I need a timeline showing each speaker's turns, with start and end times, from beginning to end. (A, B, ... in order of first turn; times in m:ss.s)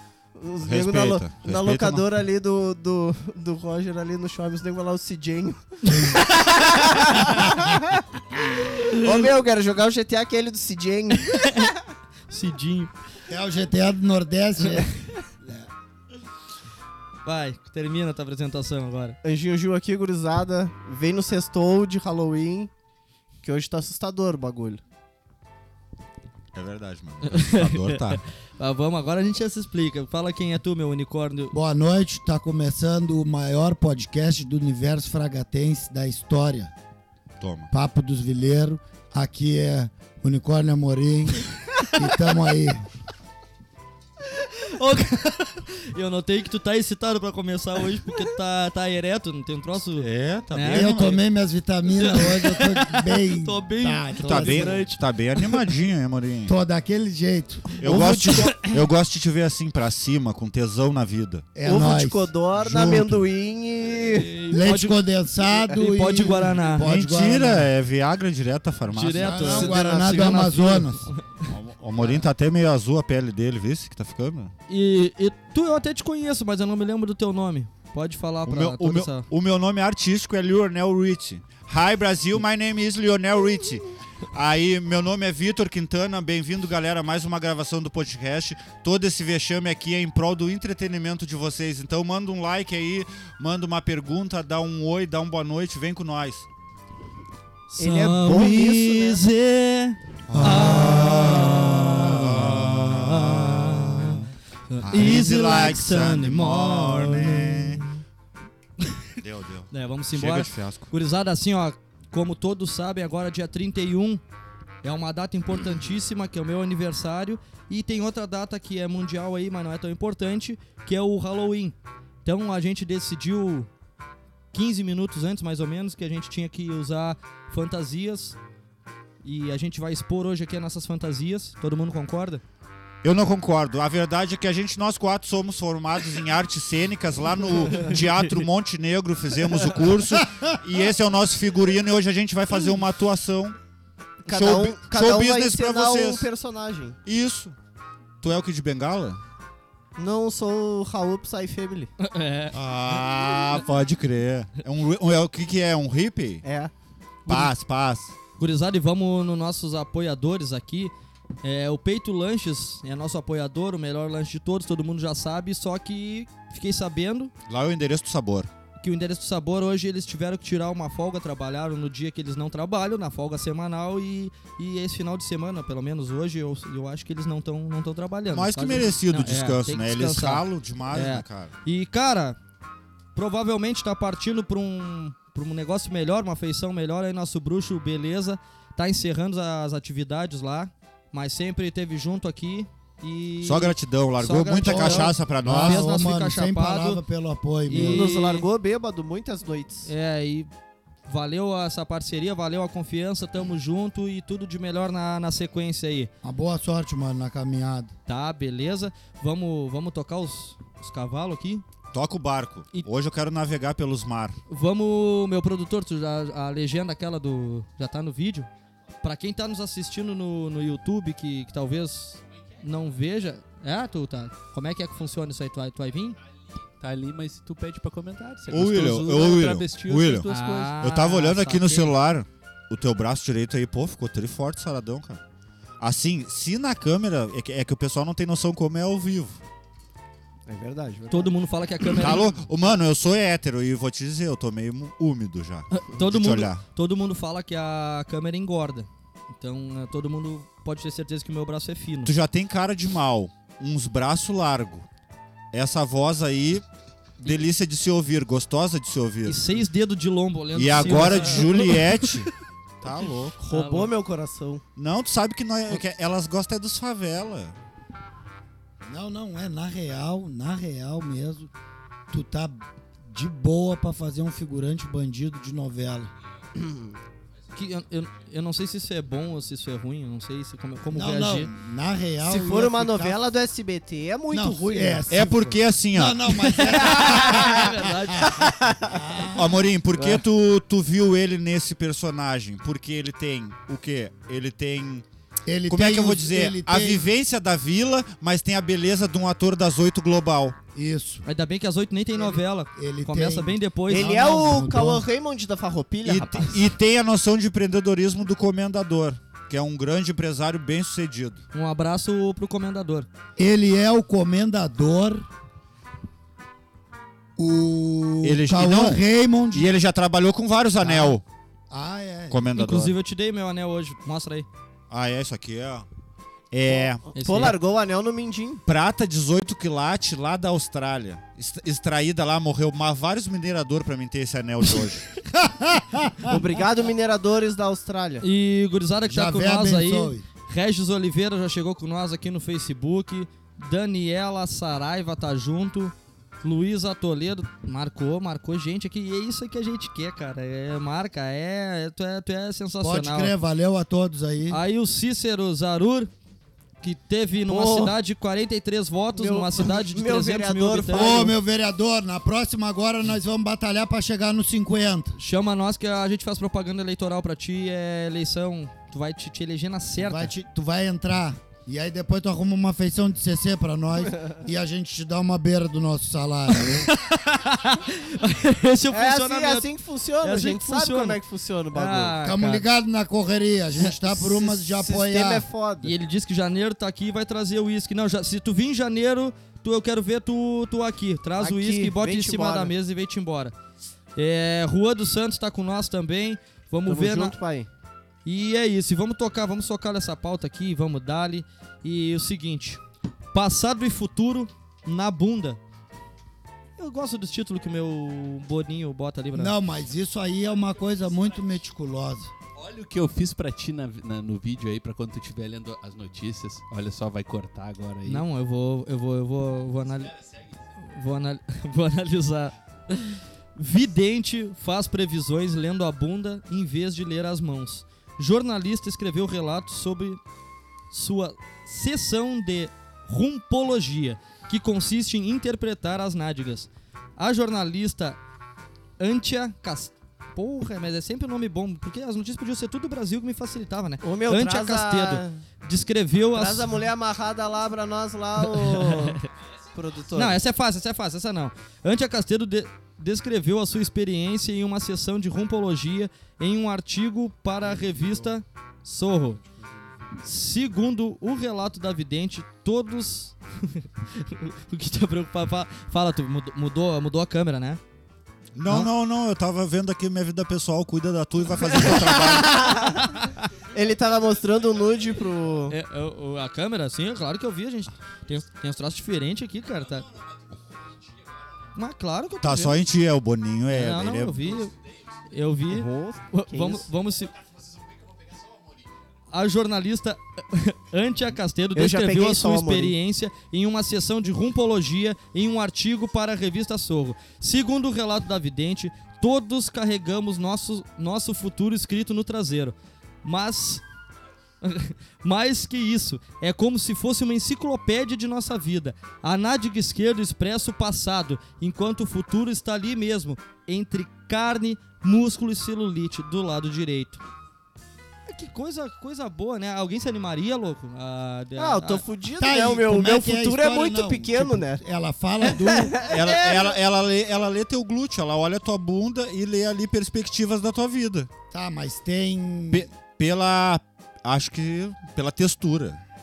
0:00.3-0:08.0 A
0:00.6-0:02.0 B
0:08.6-0:11.7 A
0:12.3-0:12.9 C
0:13.3-0:14.9 D
0:15.4-0:15.7 D
0:17.2-0:19.2 C
0:19.2-0:22.7 A
0:23.4-0:24.8 A
0:26.5-0:28.2 B
0:27.2-0:31.5 C
0:31.5-0:36.7 D
0:37.4-0:37.7 B
0:37.7-0:42.9 D
0:44.4-0:51.2 C
0:50.0-0:51.0 B
0:50.7-0:54.8 D
0:52.0-0:55.5 C
0:54.2-0:56.5 B
0:56.4-0:57.8 D
0:57.8-1:01.5 B
0:57.8-0:58.6 A
0:58.4-0:58.7 C
1:01.5-1:03.2 D
1:01.6-1:04.3 A
1:04.2-1:05.0 C
1:04.5-1:07.7 D
1:05.6-1:06.8 C
1:06.8-1:09.8 B
1:08.9-1:11.3 C
1:09.2-1:11.1 D
1:11.4-1:14.5 B
1:14.7-1:19.3 C
1:18.4-1:36.4 B
1:37.7-1:48.0 C
1:37.8-1:39.2 A
1:40.3-1:44.2 B
1:44.8-1:47.8 B
1:49.2-1:50.9 B
1:49.7-1:54.2 C
1:54.8-2:03.7 C
2:04.5-2:08.4 C
2:09.2-2:12.4 C
2:13.0-2:23.6 B
2:24.2-2:27.0 A
2:24.3-2:26.3 B
2:27.0-2:27.5 B
2:28.2-2:29.2 B
2:30.0-2:31.9 A
2:32.0-2:33.0 C
2:32.5-2:36.4 B
2:36.4-2:36.7 A
2:37.2-2:37.5 C
2:37.2-2:38.1 B
2:38.4-2:47.3 C
2:47.5-2:48.5 B
2:48.8-3:02.4 C
2:58.3-3:01.5 B
3:03.1-3:17.0 C
3:13.4-3:15.9 B
3:14.6-3:18.1 D
3:17.7-3:18.5 C
3:17.8-3:19.9 A
3:19.8-3:20.5 C
3:21.1-3:26.1 C
3:26.2-3:27.9 D
3:28.1-3:31.6 C
3:31.9-3:34.4 B
3:34.5-3:38.5 C
3:39.0-3:46.2 C
3:46.8-3:50.8 E
3:48.5-3:55.2 B
3:50.3-3:51.9 C
3:55.8-3:59.4 B
4:00.4-4:01.3 A
4:01.1-4:02.4 C
4:01.9-4:06.6 B
4:05.7-4:08.9 C
4:09.4-4:12.1 C
4:12.0-4:14.8 B
4:15.5-4:16.6 B
4:17.2-4:19.4 B
4:19.2-4:22.0 C
4:20.5-4:23.4 B
4:23.4-4:24.6 A
4:23.5-4:23.9 C
4:24.8-4:27.5 B
4:28.8-4:31.5 D
4:32.1-4:36.1 D
4:36.6-4:37.0 A
4:37.5-4:41.5 C
4:40.9-4:43.2 D
4:42.2-4:45.3 A
4:44.3-4:49.6 D
4:45.1-4:46.3 B
4:46.5-4:48.4 C
4:46.9-4:47.7 A
4:48.3-4:49.0 A
4:49.3-4:55.0 B
4:49.9-4:50.2 A
4:55.4-4:57.0 D
4:55.7-5:00.6 B
5:00.7-5:01.2 D
5:01.2-5:04.3 C
5:02.2-5:05.0 D
5:03.9-5:06.7 A
5:06.0-5:11.4 B
5:11.5-5:13.1 C
5:13.4-5:15.3 D
5:17.4-5:19.7 D
5:18.2-5:21.2 B
5:20.8-5:21.2 D
5:21.7-5:22.4 D
5:22.3-5:22.9 B
5:22.6-5:24.5 C
5:24.9-5:25.8 B
5:26.5-5:27.1 B
5:27.1-5:27.6 C
5:27.1-5:28.6 A
5:28.7-5:35.1 B
5:35.3-5:36.4 D
5:36.3-5:38.2 A
5:38.2-5:53.3 C
5:39.1-5:40.2 D
5:52.8-5:54.6 D
5:54.5-5:56.1 C
5:56.8-6:01.2 C
5:57.5-5:58.0 A
5:59.1-6:01.4 A
6:00.9-6:05.2 D
6:05.2-6:10.3 C
6:10.0-6:16.9 D
6:16.6-6:19.7 C
6:18.9-6:22.2 A
6:20.2-6:21.2 C
6:21.7-6:22.6 C
6:22.2-6:25.5 D
6:24.0-6:25.9 A
6:25.8-6:33.5 C
6:31.4-6:32.7 A
6:34.2-6:37.4 C
6:36.8-6:37.7 A
6:38.2-6:42.8 C
6:43.3-6:45.6 C
6:46.8-6:49.5 C
6:49.3-6:52.3 D
6:52.5-6:58.2 E
6:58.0-7:00.1 C
7:00.8-7:10.2 C
7:10.9-7:18.2 C
7:19.0-7:26.7 C
7:24.0-7:25.4 A
7:26.3-7:29.2 A
7:28.5-7:29.2 C
7:29.7-7:30.4 A
7:30.1-7:39.4 C
7:40.2-7:47.8 C
7:48.5-7:52.6 B
7:51.9-7:55.8 A
7:53.0-7:53.4 C
7:55.7-8:00.1 C
8:01.7-8:02.8 C
8:02.4-8:04.5 B
8:03.7-8:04.7 C
8:05.3-8:07.3 C
8:05.7-8:06.9 A
8:09.3-8:23.8 C
8:11.7-8:13.0 A
8:24.6-8:37.2 C
8:38.3-8:42.0 C
8:41.6-8:44.8 A
8:42.4-8:46.0 D
8:45.6-8:46.3 A
8:46.0-8:51.3 B
8:51.5-8:52.9 D
8:52.7-8:56.0 B